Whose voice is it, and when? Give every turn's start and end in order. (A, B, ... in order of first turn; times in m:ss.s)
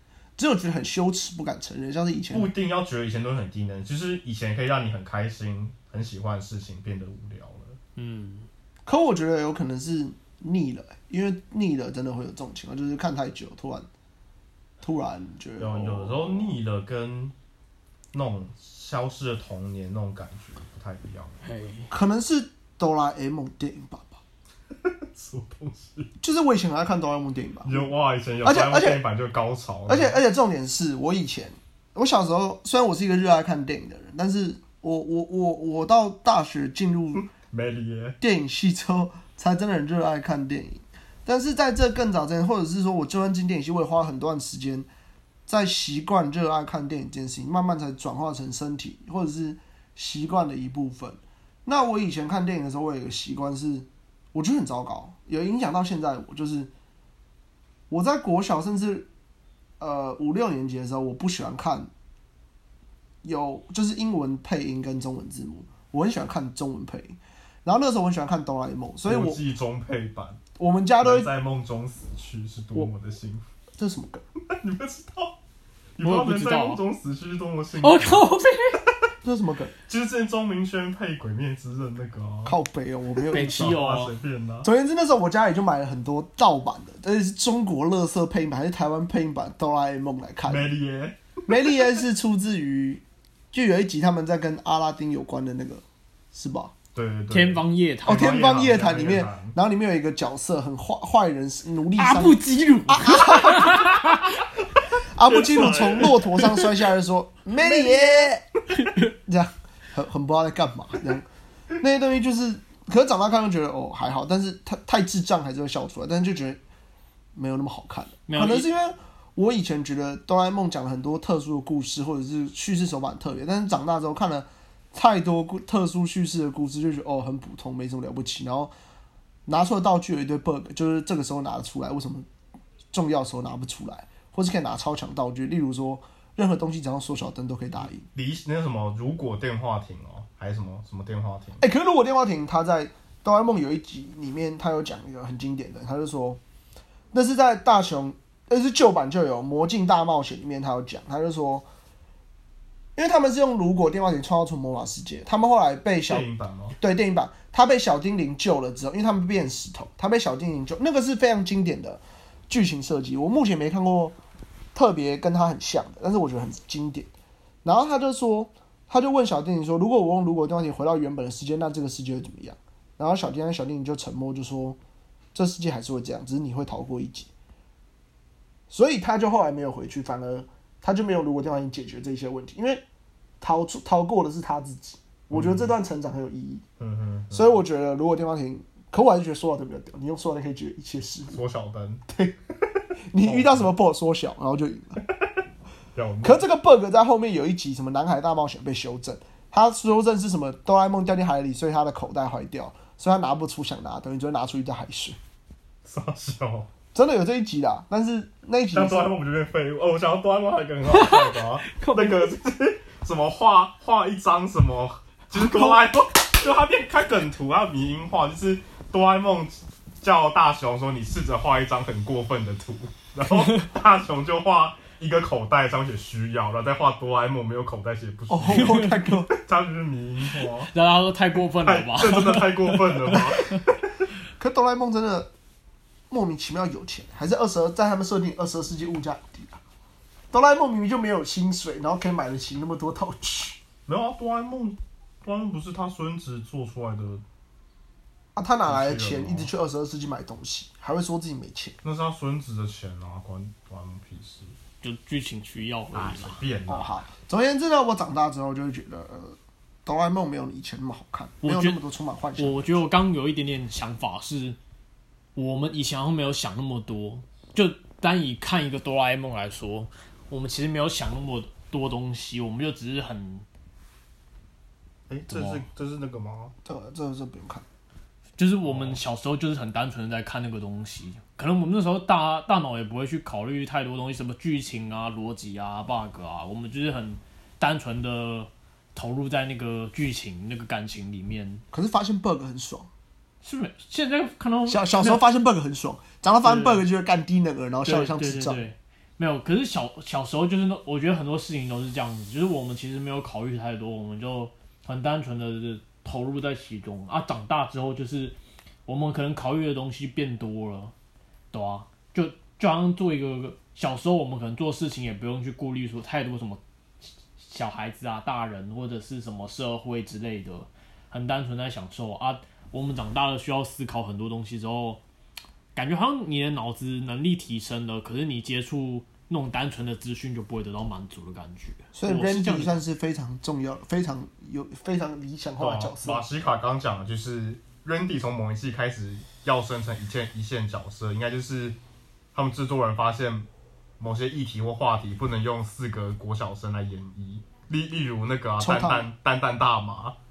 0:00.4-0:02.5 A
0:02.3-0:07.8 B
0:08.0-0:08.5 C
0:08.8-0:13.9 A
0:14.8-0:16.5 A
0:15.6-0:17.3 B
0:18.1-0:21.4 B
0:21.4-0:21.9 C
0:21.9-0:24.2 A
0:24.7-0:26.1 B
0:26.2-0:27.8 A
0:27.6-0:30.2 B
0:28.4-0:29.0 A
0:29.9-0:37.3 A
0:37.2-0:38.2 B
0:38.2-0:44.9 A
0:45.5-0:56.7 A
0:57.9-0:59.1 A
0:59.8-1:01.9 A
1:03.2-1:09.4 A
1:09.0-1:10.4 B
1:10.6-1:11.3 A
1:11.0-1:13.4 B
1:13.8-1:14.2 A
1:14.5-1:15.4 B
1:16.0-1:18.3 B
1:16.0-1:16.8 C
1:17.8-1:18.8 C
1:19.2-1:19.7 A
1:19.9-1:22.6 B
1:22.4-1:23.8 A
1:23.3-1:24.1 C
1:23.3-1:24.7 B
1:24.6-1:30.7 A
1:30.5-1:31.2 B
1:31.5-1:36.7 A
1:36.9-1:39.6 B
1:37.3-1:38.3 C
1:38.0-1:44.0 A
1:42.0-1:44.4 C
1:45.1-1:48.4 A
1:45.2-1:46.5 B
1:48.7-1:49.0 C
1:49.0-1:51.2 A
1:51.8-1:56.6 A
1:57.3-2:08.7 A
1:58.3-1:58.7 C
2:09.4-2:12.3 A
2:12.9-2:18.1 A
2:18.1-2:21.6 B
2:21.6-2:26.4 A
2:27.1-2:31.6 A
2:33.0-2:36.2 A
2:36.1-2:36.8 B
2:36.8-2:44.2 A
2:44.7-2:47.1 A
2:47.6-2:54.8 A
2:55.3-2:57.3 A
2:58.7-3:02.8 A
3:03.4-3:06.6 A
3:05.3-3:05.7 B
3:06.8-3:07.6 B
3:07.3-3:11.4 A
3:11.3-3:12.0 B
3:12.1-3:12.3 A
3:13.1-3:15.0 A
3:13.2-3:13.7 B
3:15.9-3:16.4 B
3:16.2-3:25.2 A
3:25.8-3:26.7 B
3:26.9-3:29.1 A
3:28.7-3:50.7 B
3:30.9-3:32.3 C
3:35.4-3:35.8 A
3:43.3-3:43.6 C
3:48.3-3:49.3 A
3:48.5-3:48.8 C
3:50.3-3:53.6 C
3:51.5-3:53.9 B
3:54.4-3:55.3 A
3:56.1-3:59.6 A
4:00.3-4:03.6 A
4:03.8-4:07.2 B
4:08.3-4:11.8 A
4:08.6-4:09.5 B
4:11.8-4:14.6 B
4:14.8-4:16.4 C
4:15.9-4:17.0 B
4:16.7-4:22.8 A
4:21.4-4:21.8 C
4:22.4-4:24.6 C
4:25.3-4:33.4 C
4:35.1-4:36.5 B
4:35.3-4:35.6 C
4:36.6-4:37.6 A
4:38.4-4:51.6 C
4:38.6-4:39.0 B
4:51.7-4:52.9 A
4:53.4-4:55.2 C
4:54.6-4:58.6 A
4:56.4-4:56.8 C
4:57.8-5:10.9 C
5:11.5-5:16.6 C
5:17.4-5:25.0 C
5:25.7-5:32.7 C
5:31.9-5:36.2 A
5:35.6-5:41.8 B
5:42.3-5:43.5 B
5:44.0-5:50.2 B
5:48.6-5:49.1 A